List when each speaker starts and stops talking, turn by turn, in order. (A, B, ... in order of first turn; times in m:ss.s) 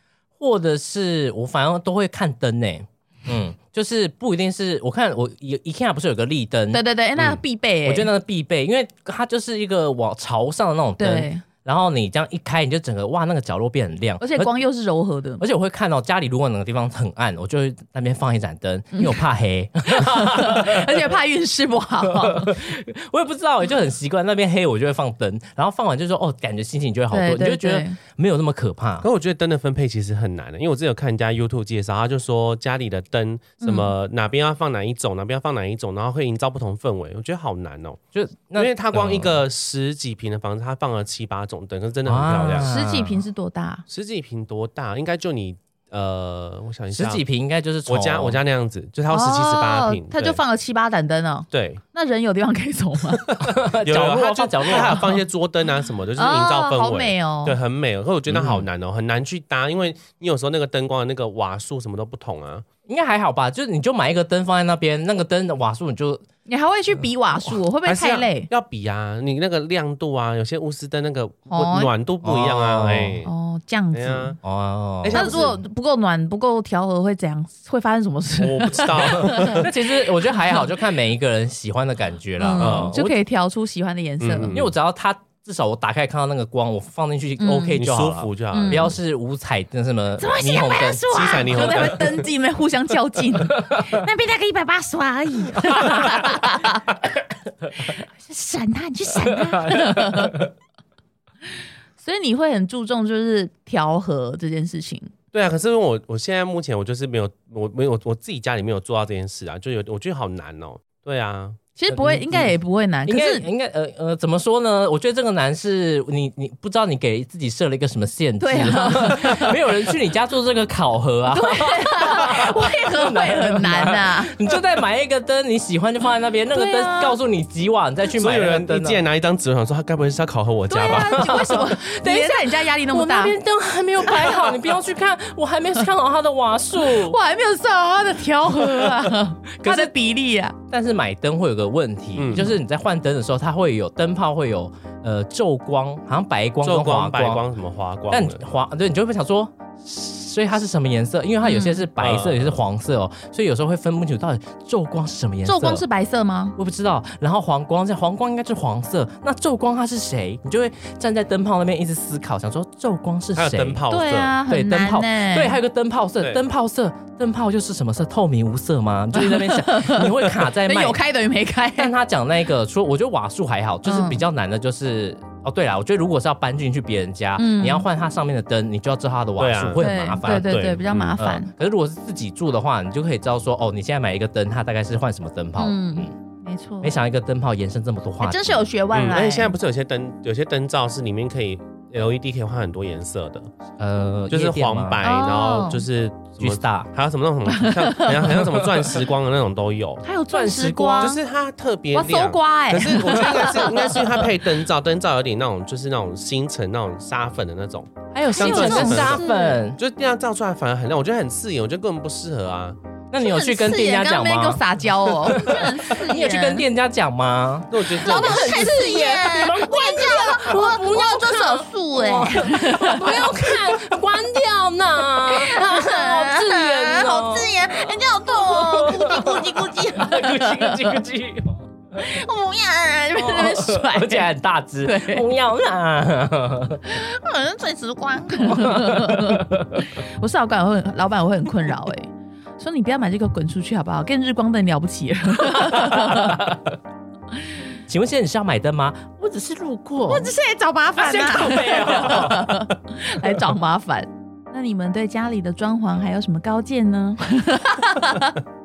0:00.4-0:14.6 A
0:06.7-0:08.1 B
0:11.0-0:11.4 B
0:14.2-0:15.4 B
0:15.4-0:21.1 A
0:18.9-0:19.3 B
0:19.9-0:22.6 B
0:22.1-0:29.0 A
0:27.1-0:28.0 B
0:29.0-0:38.0 C
0:33.6-0:33.9 B
0:38.1-0:39.4 A
0:38.6-0:42.7 C
0:42.0-0:43.2 A
0:42.6-0:43.8 B
0:43.9-0:47.2 C
0:46.9-0:48.4 A
0:47.9-0:50.4 C
0:49.1-0:53.2 B
0:51.5-0:51.8 C
0:53.3-1:02.6 C
0:53.4-0:55.0 A
0:54.7-0:55.2 B
0:56.1-0:57.6 B
0:58.3-0:58.7 A
1:02.9-1:06.2 A
1:06.5-1:08.5 B
1:07.8-1:13.3 C
1:11.5-1:11.9 B
1:12.2-1:13.2 A
1:13.2-1:14.4 B
1:13.9-1:14.4 C
1:14.4-1:15.4 A
1:15.0-1:15.6 C
1:15.1-1:20.6 B
1:18.4-1:19.7 C
1:18.9-1:23.2 A
1:22.4-1:24.6 B
1:22.6-1:22.9 C
1:24.2-1:24.7 C
1:24.5-1:31.6 A
1:27.4-1:27.9 B
1:27.8-1:28.9 C
1:28.5-1:29.0 B
1:30.2-1:37.0 B
1:31.1-1:32.3 C
1:35.8-1:36.2 A
1:37.8-1:40.5 B
1:39.6-1:40.2 A
1:42.0-1:45.1 B
1:45.3-1:51.6 C
1:51.8-1:53.5 B
1:51.9-2:09.0 A
1:58.4-1:59.6 B
2:01.3-2:04.4 B
2:06.5-2:07.2 B
2:08.1-2:11.4 C
2:10.7-2:13.4 B
2:10.8-2:17.2 A
2:14.0-2:14.6 B
2:16.8-2:20.5 B
2:19.6-2:19.9 A
2:20.7-2:27.4 A
2:22.2-2:22.5 C
2:26.6-2:28.5 C
2:28.1-2:35.8 A
2:31.4-2:31.9 B
2:32.0-2:32.6 C
2:35.4-2:36.6 B
2:36.6-2:43.8 A
2:43.4-2:44.4 C
2:43.9-2:45.6 B
2:44.4-2:51.0 A
2:49.1-2:51.9 B
2:51.8-3:06.1 A
2:53.8-2:54.2 B
2:57.4-2:57.9 B
2:59.4-3:01.2 C
2:59.8-3:01.5 B
3:05.6-3:06.9 B
3:06.8-3:08.6 A
3:08.2-3:09.6 B
3:08.9-3:13.5 C
3:13.8-3:15.0 A
3:14.3-3:20.0 C
3:15.0-3:15.8 B
3:16.4-3:16.9 A
3:17.5-3:18.4 B
3:20.0-3:21.2 B
3:20.3-3:21.2 A
3:21.0-3:32.8 C
3:21.9-3:24.2 B
3:28.1-3:29.6 B
3:28.2-3:29.8 A
3:33.1-3:52.1 A
3:33.2-3:36.6 B
3:37.7-3:38.7 C
3:37.9-3:43.8 B
3:45.3-3:51.0 B
3:52.0-3:54.3 B
3:53.1-3:56.8 A
3:54.8-3:55.2 B
3:56.9-4:06.5 B
3:58.4-3:59.8 A
4:05.5-4:06.6 A
4:07.9-4:10.3 A
4:10.1-4:18.4 B
4:11.0-4:12.7 A